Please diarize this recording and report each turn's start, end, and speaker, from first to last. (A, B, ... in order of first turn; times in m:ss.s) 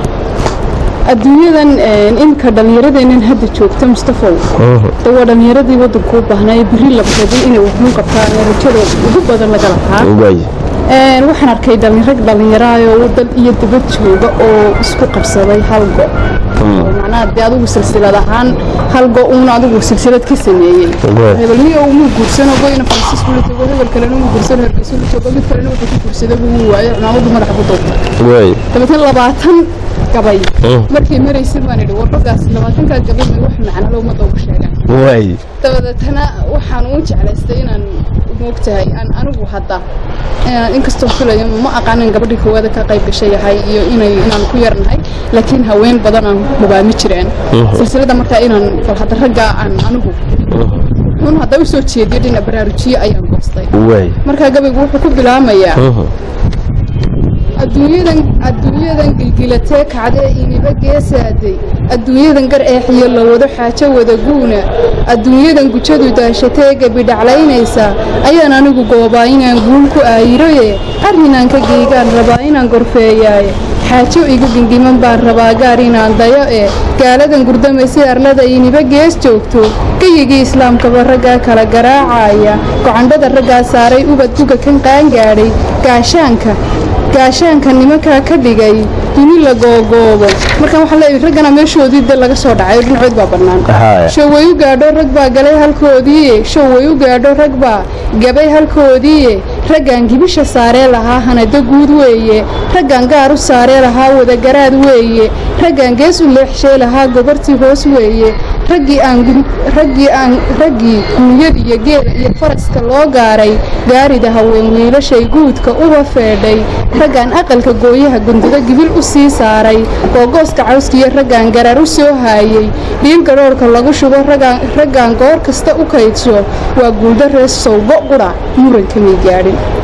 0:01.1-0:04.5 A
0:04.6-0:05.0 B
0:05.0-0:10.1 A
0:10.0-0:10.5 B
0:10.9-0:16.1 A
0:16.6-0:16.9 B
0:16.7-0:28.1 A
0:21.0-0:21.4 B
0:28.2-0:28.6 B
0:28.7-0:35.0 A
0:30.6-0:30.9 B
0:34.9-0:35.4 B
0:35.6-0:39.8 A
0:40.5-0:50.2 A
0:47.5-0:47.8 B
0:50.5-0:50.8 B
0:51.2-0:53.7 A
0:53.7-0:54.2 B
0:54.2-0:55.9 A
0:55.8-0:56.1 B
0:57.6-1:26.6 A
1:27.1-2:09.6 A
1:33.7-1:34.1 B